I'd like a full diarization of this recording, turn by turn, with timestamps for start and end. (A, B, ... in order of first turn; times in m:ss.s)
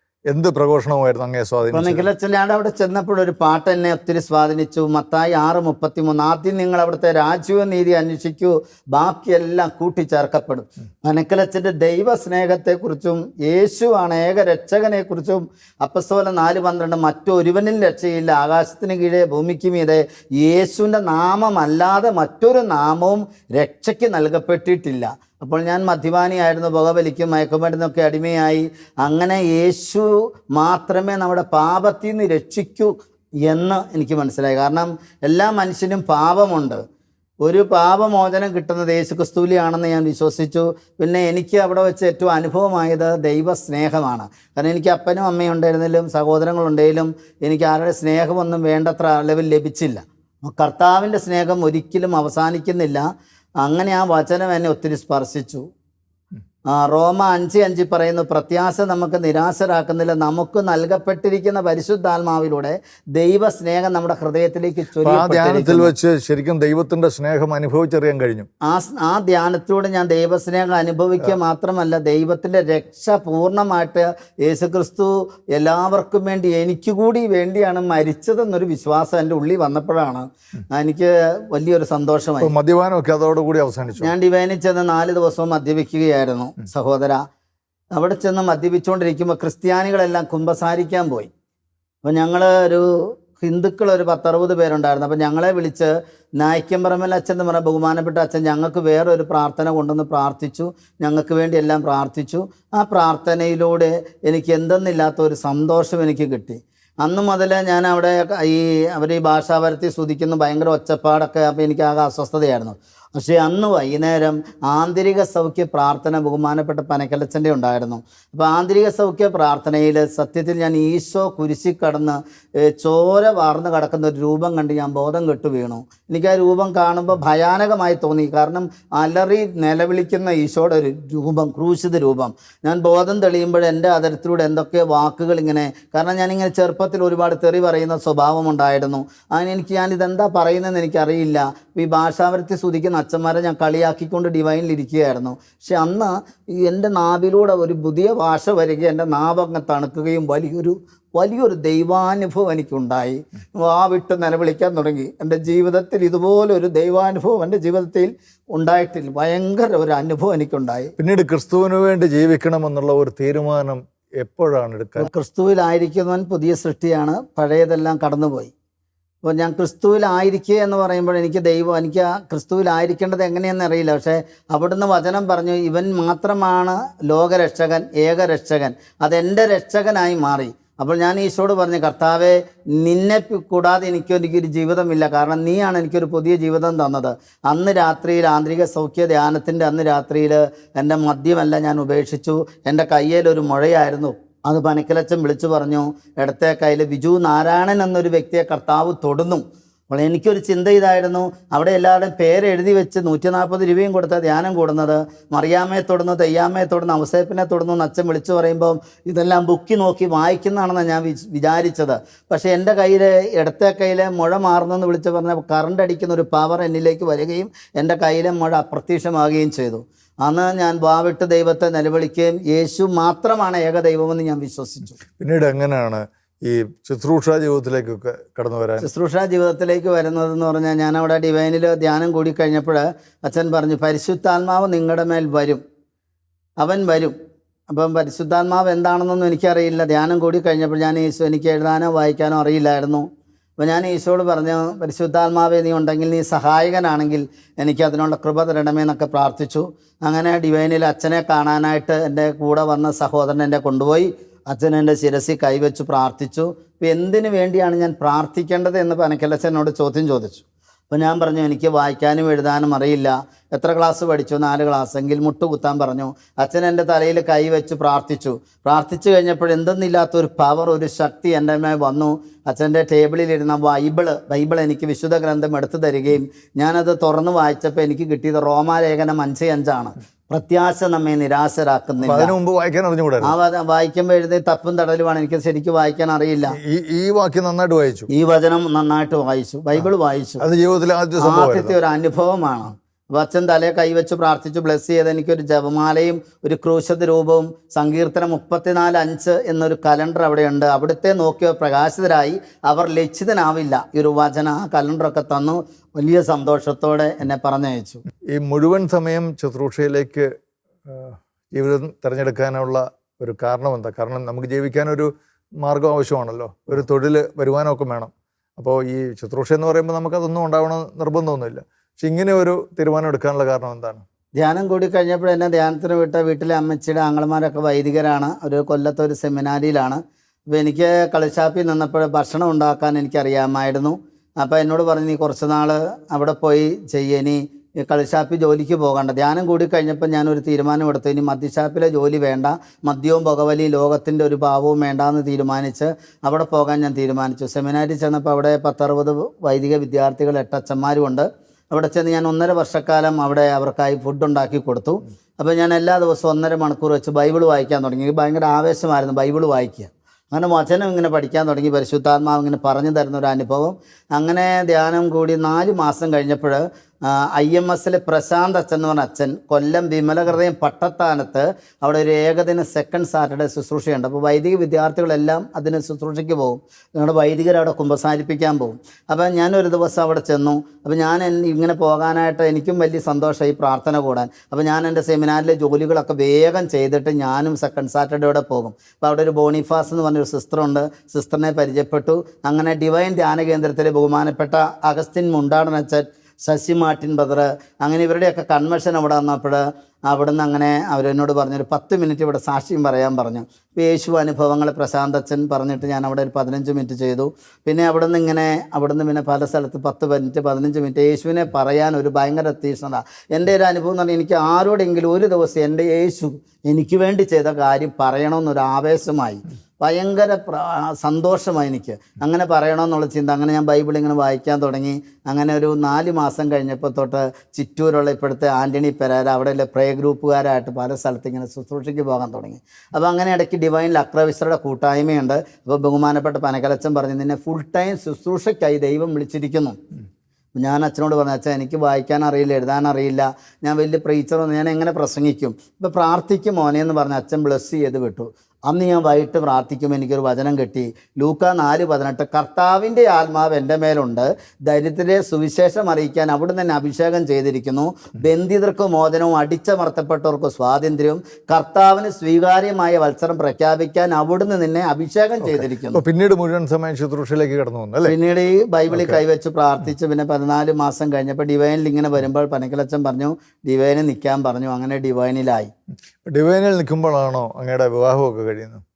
0:00.3-0:02.1 A
0:01.7-0:32.9 B
0:33.5-0:36.8 B
0:37.4-0:53.0 B
0:53.6-0:55.6 B
0:56.7-1:05.9 B
1:05.0-1:08.5 A
1:08.6-1:22.5 B
1:22.4-1:24.1 A
1:24.0-1:27.2 B
1:28.0-1:31.3 B
1:32.0-2:40.9 B
2:41.0-2:45.1 A
2:45.0-2:48.5 B
2:49.2-3:45.0 B
3:45.2-3:48.9 A
3:48.8-3:55.6 B
3:56.6-3:57.2 B
3:57.7-4:03.1 B
4:03.6-4:42.3 B
4:42.0-4:43.4 A
4:43.2-4:46.6 B
4:46.6-4:48.1 A
4:48.1-4:50.4 B
4:50.4-4:51.8 A
4:51.2-5:08.0 B
5:08.3-5:10.3 A
5:10.9-5:15.1 A
5:15.6-5:24.0 A
5:24.4-7:19.8 B
7:20.6-7:46.0 B
7:45.4-7:48.2 A
7:48.0-7:55.7 B
7:48.9-7:49.2 A
7:56.2-7:58.8 A